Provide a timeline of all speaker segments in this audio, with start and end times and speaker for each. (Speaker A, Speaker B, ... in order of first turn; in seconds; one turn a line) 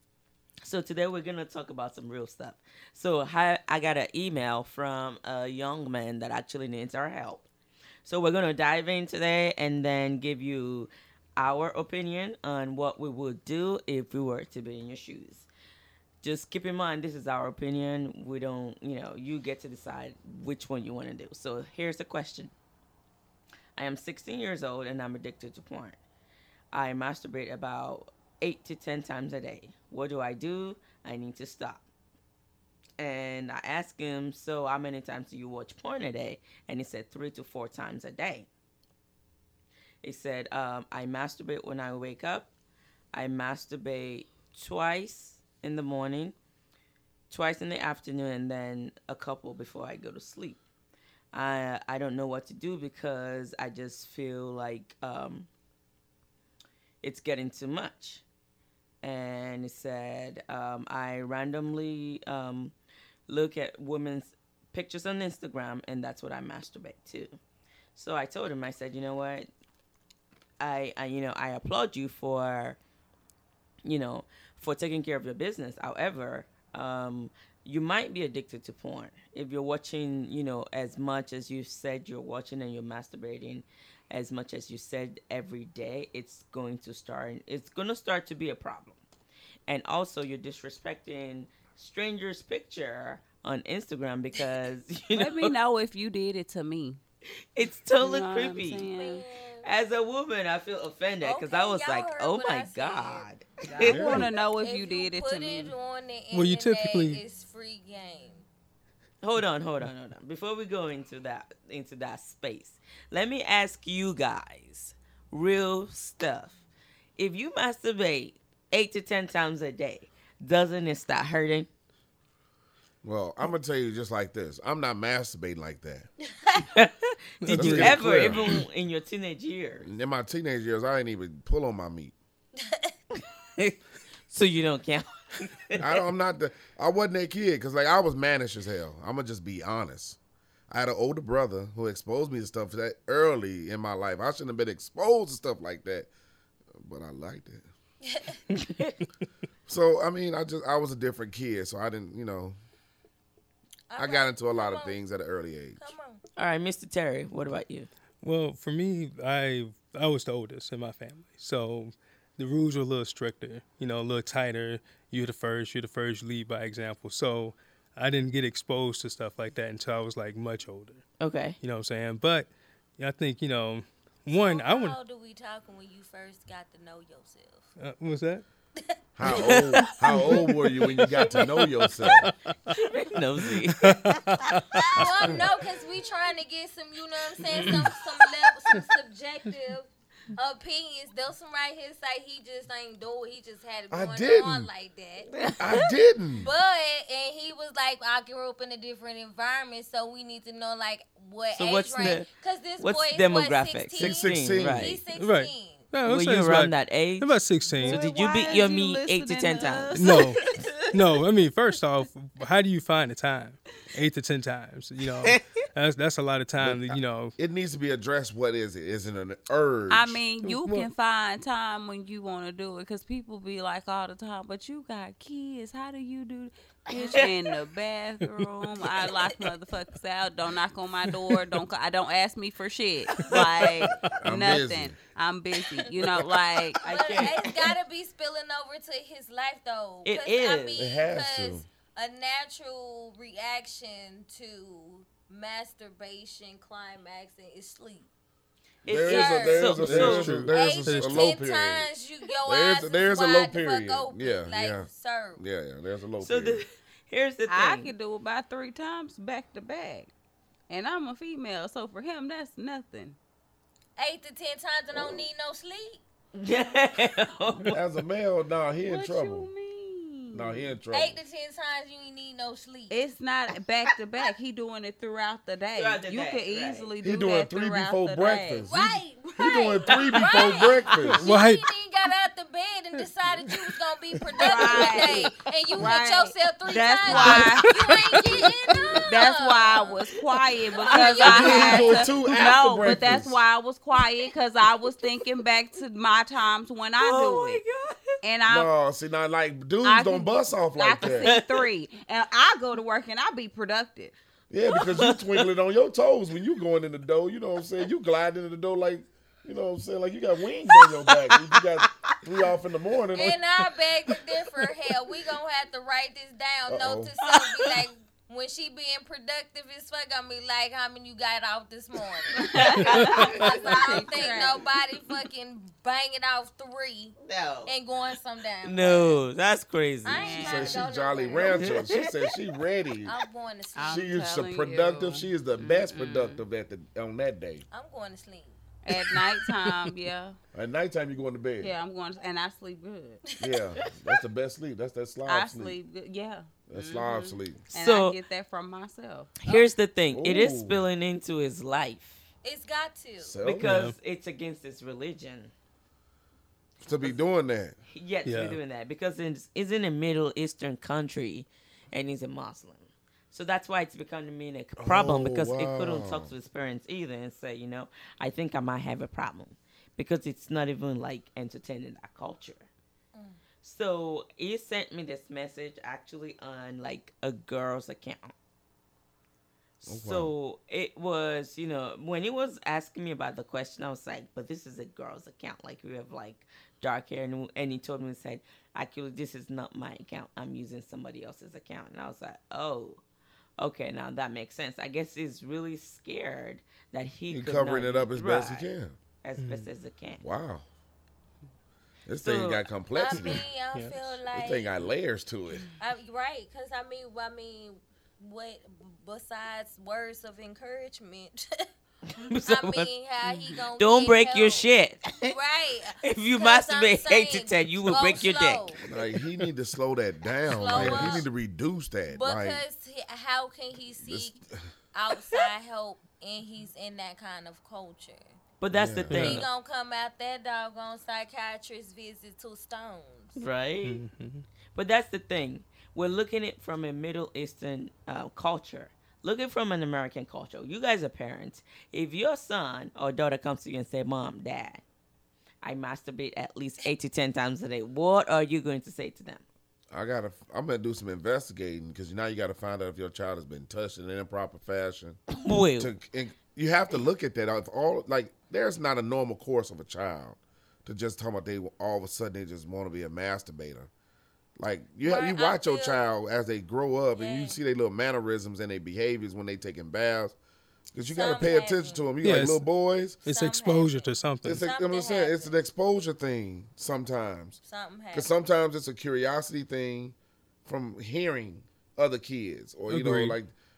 Speaker A: 0.6-7.5
Speaker A: 8.0-15.5
Speaker A: 16.2-22.5
Speaker A: 23.8-26.0
Speaker A: 26.7-31.8
Speaker A: 33.0-38.5
Speaker A: 40.0-42.5
Speaker A: 43.1-46.4
Speaker A: 47.3-50.6
Speaker A: 51.3-55.5
Speaker A: 57.0-58.2
Speaker A: 59.0-62.7
Speaker A: 63.3-67.4
Speaker A: 67.9-69.5
Speaker A: 70.6-72.8
Speaker A: 73.8-89.0
Speaker A: 89.7-95.5
Speaker B: 95.2-97.0
Speaker A: 97.5-98.9
Speaker B: 98.0-99.2
Speaker C: 98.9-99.7
Speaker A: 99.6-104.2
Speaker C: 101.2-108.5
Speaker B: 103.7-105.7
Speaker D: 103.8-104.3
Speaker E: 106.3-107.2
Speaker A: 109.2-116.6
Speaker A: 117.2-121.7
Speaker D: 123.0-126.1
Speaker A: 126.6-129.9
Speaker E: 127.4-128.5
Speaker D: 127.5-128.6
Speaker D: 129.8-132.1
Speaker C: 132.6-132.9
Speaker A: 133.1-135.8
Speaker D: 135.8-140.2
Speaker D: 140.7-146.1
Speaker D: 146.7-147.7
Speaker C: 148.0-148.4
Speaker A: 148.5-149.0
Speaker D: 149.7-152.6
Speaker C: 153.9-155.0
Speaker D: 154.0-155.9
Speaker C: 155.8-156.2
Speaker A: 156.4-157.9
Speaker E: 158.2-171.0
Speaker A: 171.2-171.6
Speaker E: 171.6-174.9
Speaker C: 174.3-177.7
Speaker E: 177.8-178.4
Speaker D: 179.2-182.3
Speaker A: 179.2-181.1
Speaker E: 180.1-180.4
Speaker A: 182.7-184.1
Speaker E: 183.4-185.3
Speaker C: 184.9-195.6
Speaker E: 187.6-187.9
Speaker D: 193.9-194.7
Speaker D: 195.6-196.5
Speaker C: 196.4-205.9
Speaker A: 201.5-202.3
Speaker A: 202.8-205.0
Speaker D: 204.0-205.0
Speaker E: 205.2-208.0
Speaker A: 206.0-207.3
Speaker B: 207.8-210.8
Speaker A: 207.8-210.3
Speaker E: 209.9-217.3
Speaker D: 216.6-220.2
Speaker B: 219.9-236.8
Speaker E: 220.4-220.9
Speaker A: 226.9-227.3
Speaker A: 233.2-233.6
Speaker D: 234.2-235.0
Speaker C: 236.8-248.1
Speaker A: 236.8-237.4
Speaker A: 240.0-240.8
Speaker D: 240.8-241.6
Speaker A: 248.8-250.4
Speaker D: 248.9-251.9
Speaker C: 248.9-255.4
Speaker E: 249.8-251.3
Speaker D: 252.4-256.6
Speaker A: 256.2-257.9
Speaker B: 257.5-260.1
Speaker B: 260.7-263.2
Speaker C: 264.0-266.0
Speaker D: 264.9-265.2
Speaker A: 266.3-267.8
Speaker D: 267.7-269.5
Speaker B: 268.8-270.7
Speaker D: 270.3-271.2
Speaker C: 270.9-273.1
Speaker B: 272.9-278.7
Speaker A: 275.8-276.9
Speaker D: 277.0-281.3
Speaker C: 278.7-290.0
Speaker E: 281.2-281.6
Speaker B: 284.4-288.5
Speaker A: 287.1-287.6
Speaker E: 287.1-287.4
Speaker B: 289.0-297.6
Speaker A: 290.8-291.9
Speaker C: 290.8-292.1
Speaker D: 291.2-293.4
Speaker A: 297.0-298.2
Speaker B: 298.2-298.7
Speaker D: 298.5-301.3
Speaker B: 299.8-304.1
Speaker A: 301.1-301.6
Speaker D: 304.5-313.4
Speaker A: 304.7-305.4
Speaker A: 310.7-312.2
Speaker C: 313.1-327.1
Speaker D: 316.7-317.1
Speaker A: 317.2-317.8
Speaker B: 322.3-324.6
Speaker A: 322.5-323.5
Speaker A: 327.2-327.7
Speaker C: 327.6-329.2
Speaker A: 328.6-330.4
Speaker C: 330.1-331.9
Speaker B: 330.1-330.9
Speaker D: 330.2-333.1
Speaker A: 331.5-332.1
Speaker C: 333.1-334.1
Speaker B: 333.8-336.4
Speaker D: 333.8-337.6
Speaker C: 337.7-338.6
Speaker B: 338.8-340.4
Speaker D: 340.5-341.7
Speaker B: 341.6-343.2
Speaker C: 343.3-343.6
Speaker D: 343.4-345.8
Speaker B: 345.2-349.7
Speaker D: 346.7-347.6
Speaker A: 347.8-348.2
Speaker A: 349.4-352.2
Speaker D: 350.1-350.8
Speaker C: 352.4-353.4
Speaker D: 353.2-353.7
Speaker A: 353.4-355.5
Speaker E: 353.6-353.9
Speaker D: 356.8-357.8
Speaker A: 357.9-372.7
Speaker E: 358.2-358.6
Speaker D: 364.8-366.3
Speaker C: 373.1-373.4
Speaker A: 373.6-378.3
Speaker A: 379.8-393.0
Speaker D: 379.9-380.3
Speaker A: 393.6-398.7
Speaker D: 397.3-398.9
Speaker A: 399.2-400.2
Speaker E: 399.4-399.7
Speaker D: 400.2-400.6
Speaker D: 402.1-403.4
Speaker A: 402.2-402.6
Speaker C: 402.9-404.7
Speaker E: 403.2-404.0
Speaker D: 404.3-405.7
Speaker C: 405.8-411.6
Speaker A: 412.2-412.9
Speaker C: 412.3-414.7
Speaker B: 413.2-413.6
Speaker A: 413.8-415.4
Speaker C: 415.2-418.9
Speaker A: 416.0-418.8
Speaker D: 418.8-422.6
Speaker C: 420.4-421.3
Speaker A: 420.8-421.2
Speaker C: 422.1-424.4
Speaker D: 424.0-424.5
Speaker C: 424.9-428.4
Speaker A: 428.6-429.4
Speaker D: 428.7-429.2
Speaker E: 429.1-429.4
Speaker C: 429.1-433.4
Speaker A: 433.4-434.0
Speaker E: 433.8-434.4
Speaker A: 434.7-444.8
Speaker A: 445.6-449.4
Speaker D: 449.9-455.2
Speaker A: 455.3-455.9
Speaker D: 455.8-463.9
Speaker D: 464.6-470.4
Speaker C: 465.0-466.1
Speaker C: 467.1-467.6
Speaker D: 470.9-473.2
Speaker C: 471.1-472.1
Speaker E: 472.2-472.7
Speaker E: 473.2-474.6
Speaker C: 473.2-475.6
Speaker D: 474.4-477.6
Speaker C: 477.6-478.3
Speaker D: 478.1-483.5
Speaker E: 482.9-483.4